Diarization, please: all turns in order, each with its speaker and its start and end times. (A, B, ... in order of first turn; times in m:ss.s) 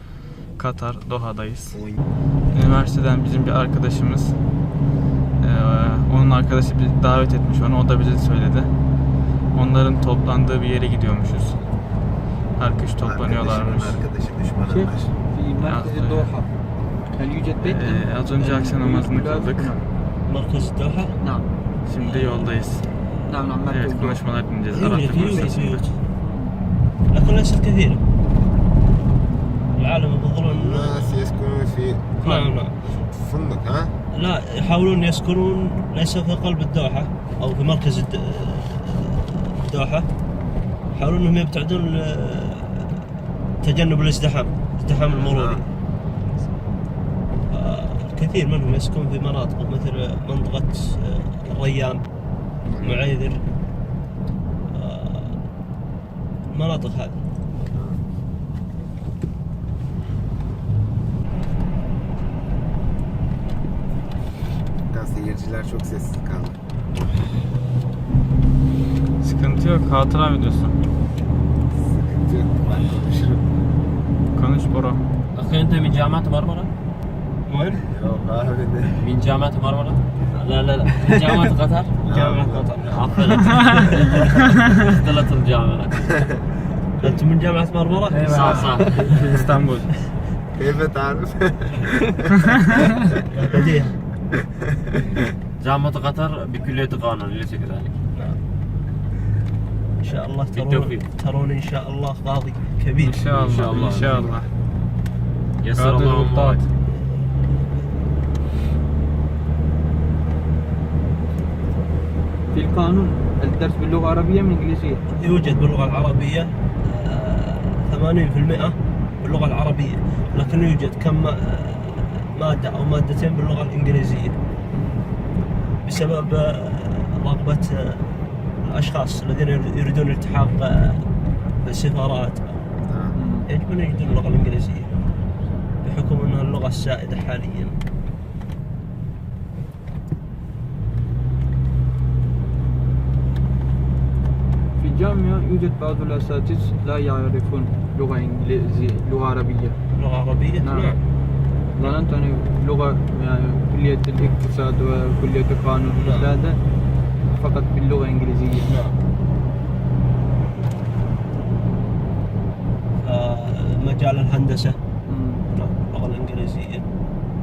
0:00.6-0:01.8 A
0:01.7-0:02.0 B
0:02.5-0:04.4 A
0:05.4-0:08.7 A
0:09.5-0:11.6 A
0:12.6-0:14.0 A
0:13.0-0:15.1 B
0:14.6-0:16.5 C
0:15.6-0:16.3 A
0:17.1-0:19.8 C
0:17.6-0:19.8 A
0:20.3-0:21.2 D
0:21.2-0:21.5 C
0:21.9-0:22.9 A
0:22.0-0:22.5 D
0:23.3-0:24.2 C
0:23.7-0:25.8 A
0:24.7-0:25.9 D
0:24.9-0:25.6 C
0:26.2-0:26.6 C
0:27.1-0:28.0 D
0:29.8-0:31.4 D
0:30.5-0:32.3 B
0:32.2-0:32.8 D
0:32.2-0:32.5 C
0:33.1-0:34.0 B
0:34.1-0:40.1 D
0:40.9-0:43.1 D
0:43.6-0:45.7 D
0:45.1-0:45.6 B
0:47.5-0:52.0 D
0:52.7-0:53.1 B
0:52.8-0:53.4 D
0:54.7-0:55.4 D
0:56.5-0:57.2 D
0:57.6-0:58.0 B
1:04.9-1:06.6 B
1:09.2-1:10.8 A
1:11.7-1:13.5 B
1:14.3-1:15.0 A
1:15.3-1:16.7 E
1:17.5-1:17.8 D
1:17.9-1:19.1 B
1:19.0-1:22.0 E
1:22.1-1:22.8 B
1:22.1-1:24.2 D
1:22.9-1:23.9 E
1:24.7-1:26.0 E
1:27.0-1:28.9 D
1:28.1-1:29.9 A
1:28.3-1:29.1 E
1:30.6-1:32.7 B
1:32.4-1:32.9 A
1:33.3-1:34.0 D
1:34.6-1:35.2 B
1:35.6-1:38.0 E
1:40.0-1:44.0 D
1:40.5-1:41.1 E
1:43.0-1:44.5 A
1:43.3-1:44.3 E
1:45.6-1:46.6 E
1:45.8-1:46.7 A
1:52.5-1:55.0 C
1:55.2-2:04.4 D
2:05.8-2:11.0 D
2:11.6-2:12.7 D
2:12.8-2:13.2 B
2:13.2-2:13.5 C
2:13.5-2:14.9 D
2:15.8-2:17.8 D
2:24.8-2:29.8 C
2:29.9-2:31.0 D
2:30.6-2:31.0 C
2:31.8-2:36.6 C
2:35.9-2:36.3 D
2:37.3-2:38.8 C
2:38.6-2:39.0 D
2:43.0-2:44.8 D
2:45.1-2:45.4 C
2:45.5-2:46.9 D